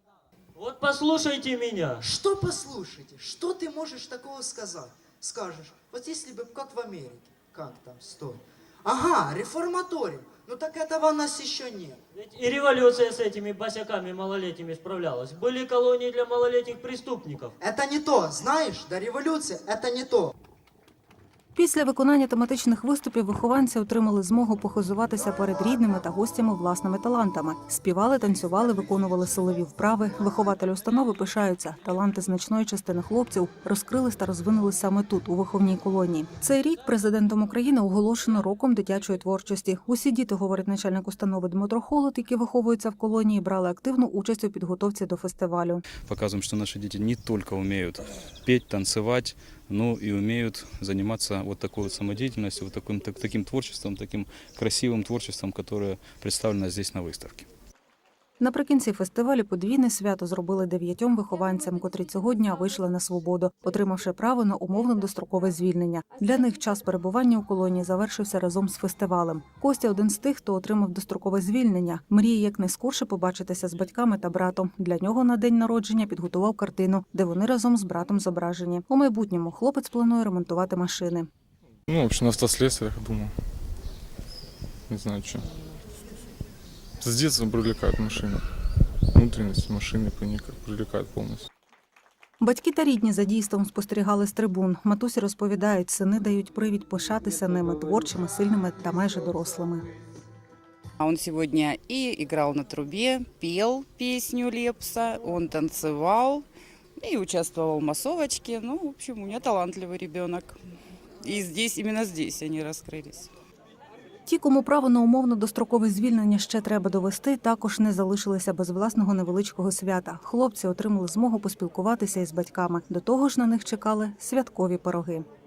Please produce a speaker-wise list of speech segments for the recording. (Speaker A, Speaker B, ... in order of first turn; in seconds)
Speaker A: 0.6-2.0, 12.1-17.5
Speaker B: 2.0-12.0, 17.6-20.3
Speaker C: 21.6-45.8, 58.4-81.3, 92.4-99.9, 114.3-125.3
Speaker D: 46.0-57.5
Speaker E: 81.9-83.3, 84.9-85.5, 87.0-88.5, 89.1-91.5
Speaker F: 101.0-106.4, 107.0-110.5, 111.2-113.3